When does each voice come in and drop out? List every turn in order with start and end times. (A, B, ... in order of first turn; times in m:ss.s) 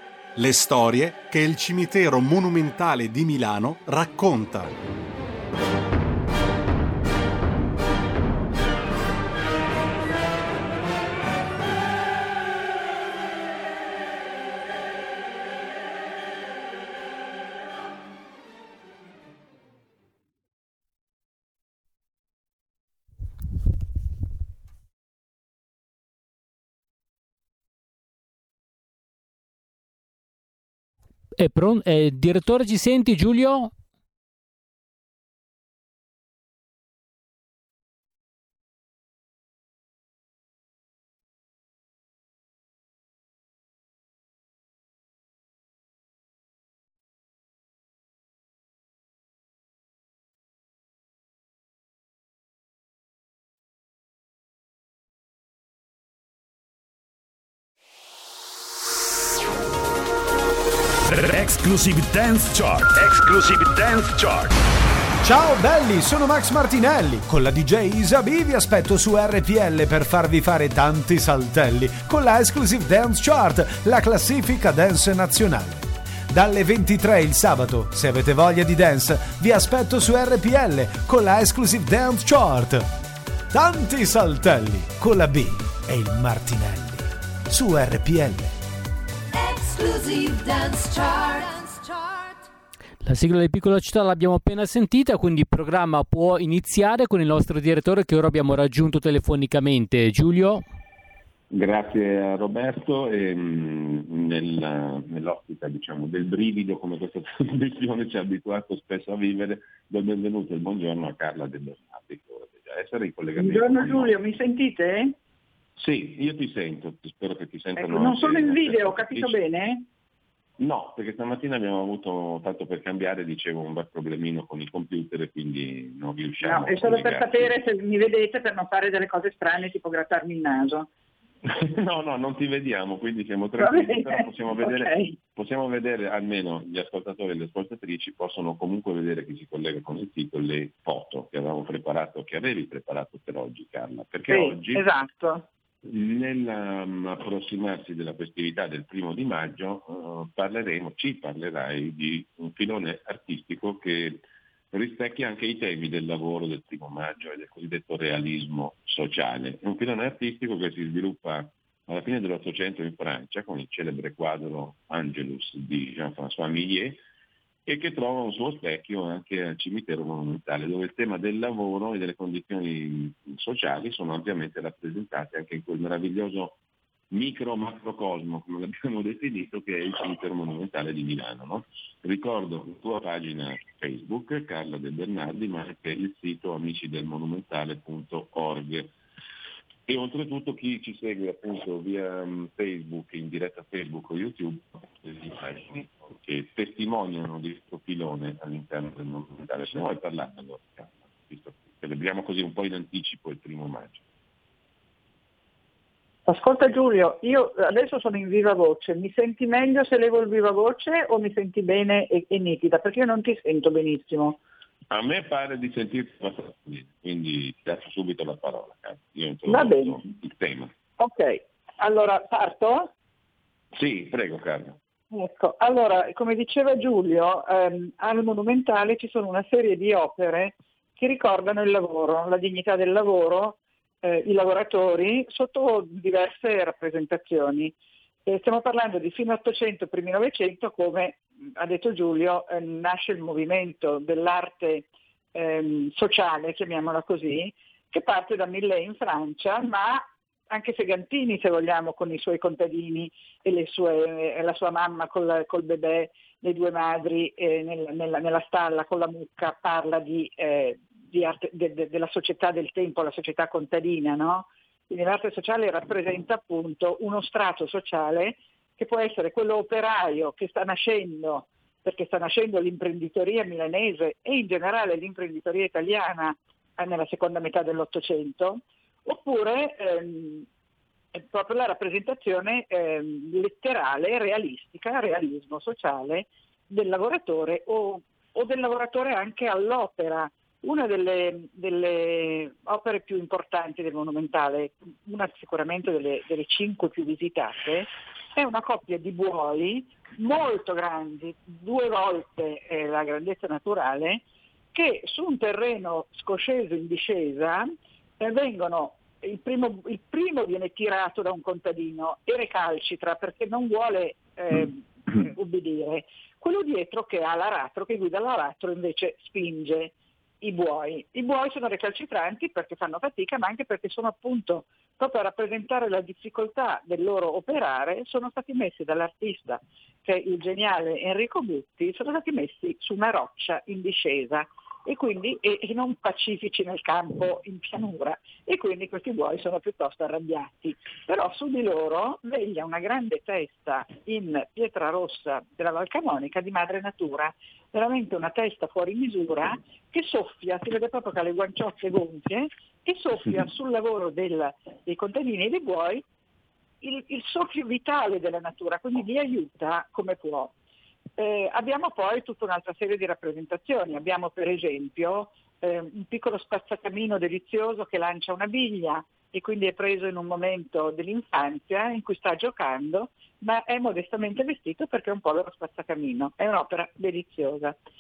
0:00.4-0:04.8 A
0:31.4-0:33.7 B
1:01.1-1:04.5 C
1:05.2-1:22.9 D
1:23.5-1:28.5 D
1:29.4-1:32.2 E
1:33.0-1:40.6 B
1:41.5-1:54.2 F
1:53.4-1:55.2 G
1:55.8-1:59.4 F
1:57.8-1:59.9 G
2:00.6-2:07.5 F
2:06.4-2:10.9 G
2:11.4-2:24.8 F
2:13.6-2:15.2 G
2:24.3-2:25.5 G
2:25.8-2:47.0 F
2:47.7-2:56.6 F
2:57.1-3:08.9 F
3:09.9-3:24.0 F
3:26.3-3:34.4 G
3:34.9-3:40.7 F
3:39.5-3:40.0 G
3:41.0-3:42.9 G
3:43.8-3:44.8 F
3:45.1-3:57.8 G
3:58.3-4:40.5 G
4:41.1-5:07.7 G
5:08.2-5:56.0 G
5:56.8-6:00.5 G
6:01.2-6:17.8 G